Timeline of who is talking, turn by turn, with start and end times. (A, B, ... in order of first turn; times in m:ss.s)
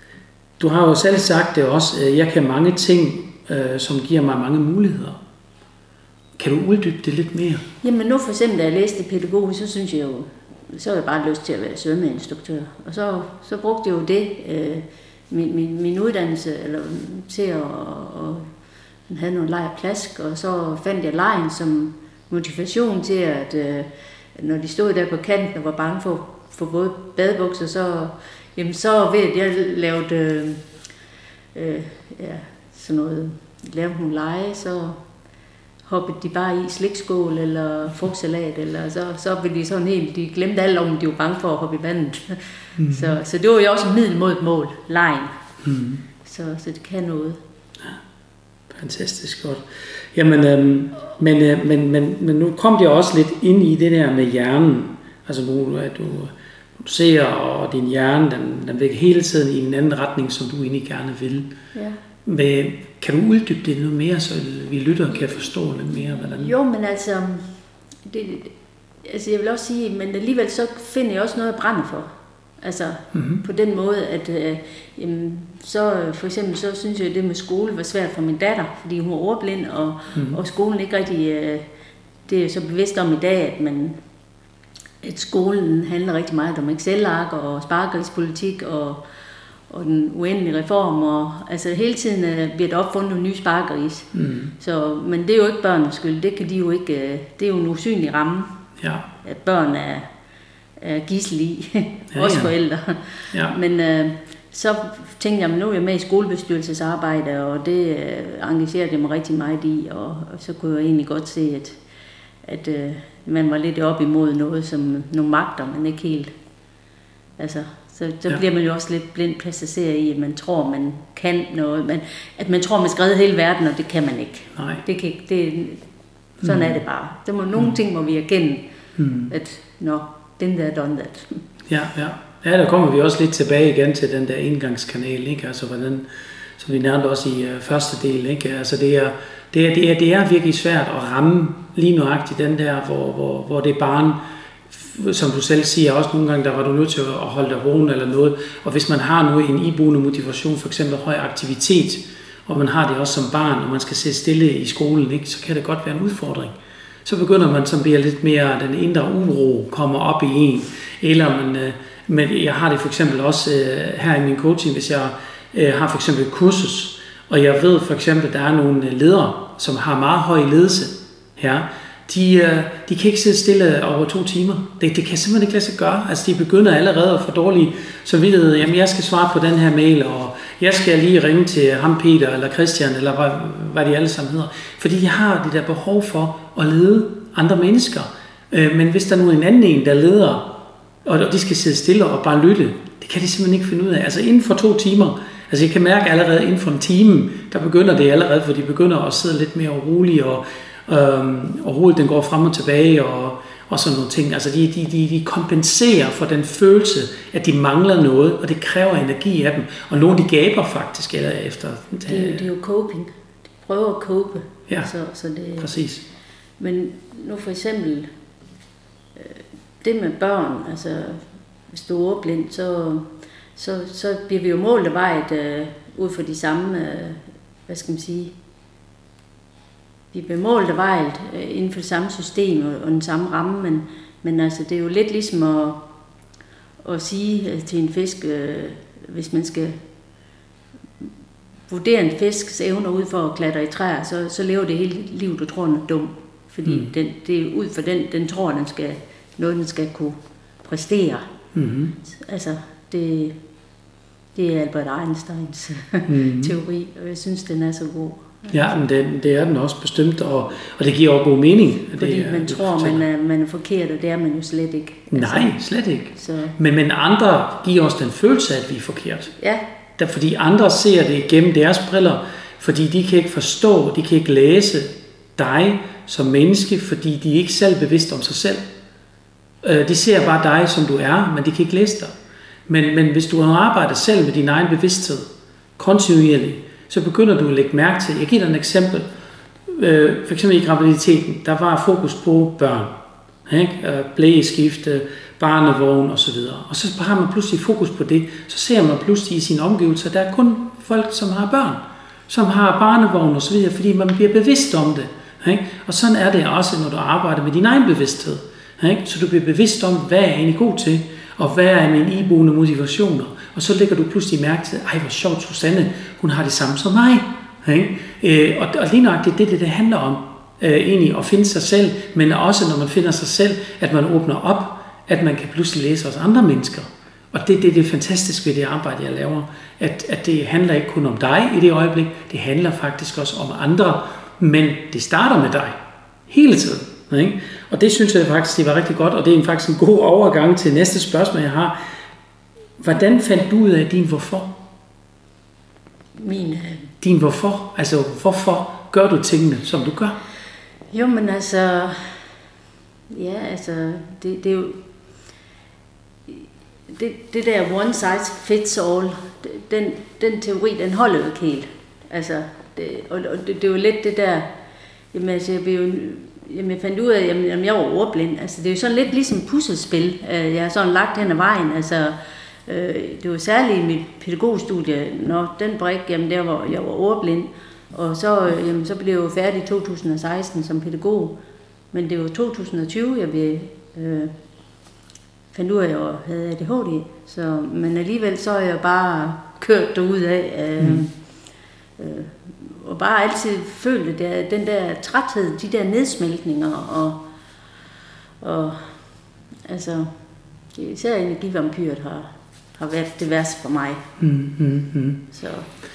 0:00.6-0:05.2 A
0:06.4-0:07.6 A
0:07.8-0:18.5 B
0:19.1-0:30.6 B
0:31.5-0:35.0 B
0:35.9-0:45.3 B
0:42.8-0:43.2 A
0:45.6-0:46.0 A
0:46.2-0:47.4 B
0:48.7-1:01.5 A
1:02.3-1:06.5 A
1:05.3-1:07.5 B
1:08.0-1:21.6 B
1:13.1-1:13.4 A
1:20.1-1:20.4 A
1:22.3-1:24.0 B
1:25.0-1:29.0 B
1:29.7-1:38.6 B
1:34.1-1:34.5 A
1:38.8-1:39.1 A
1:39.2-1:40.1 B
1:40.8-1:51.8 B
1:42.1-1:42.5 A
1:52.4-1:56.3 B
1:57.4-2:05.8 B
2:04.6-2:04.8 A
2:06.4-2:06.8 A
2:06.4-2:08.7 B
2:09.0-2:09.3 A
2:09.3-2:11.4 B
2:11.7-2:16.1 A
2:16.6-2:24.2 A
2:24.7-2:36.5 A
2:37.0-3:32.5 A
3:32.1-3:35.7 B
3:35.6-3:36.0 A
3:36.6-3:38.1 B
3:39.2-3:48.3 B
3:50.1-3:55.8 B
3:56.8-3:59.8 B
4:01.7-4:11.3 B
4:06.7-4:06.9 A
4:11.5-4:12.0 A
4:12.0-4:13.4 B
4:14.4-4:18.8 B
4:16.1-4:16.6 A
4:18.5-4:23.0 A
4:22.0-4:25.6 B
4:25.1-4:29.3 A
4:26.2-4:26.6 B
4:30.0-4:38.6 A
4:39.6-4:42.1 A
4:42.7-4:45.3 A
4:45.8-4:49.1 A
4:49.7-4:53.0 A
4:53.5-5:35.8 A
5:36.3-5:41.8 A
5:42.8-5:44.6 A
5:46.2-5:46.9 B
5:47.0-5:50.2 A
5:50.9-5:52.2 B
5:53.1-5:54.8 B
5:56.3-6:04.5 B
6:05.1-6:21.4 B
6:21.9-6:24.3 B
6:25.5-6:31.2 B
6:30.8-6:31.1 A
6:32.0-6:37.2 B
6:38.4-6:39.0 B
6:39.7-6:40.2 B
6:40.7-6:44.0 B
6:44.2-6:45.2 A
6:45.3-6:45.7 B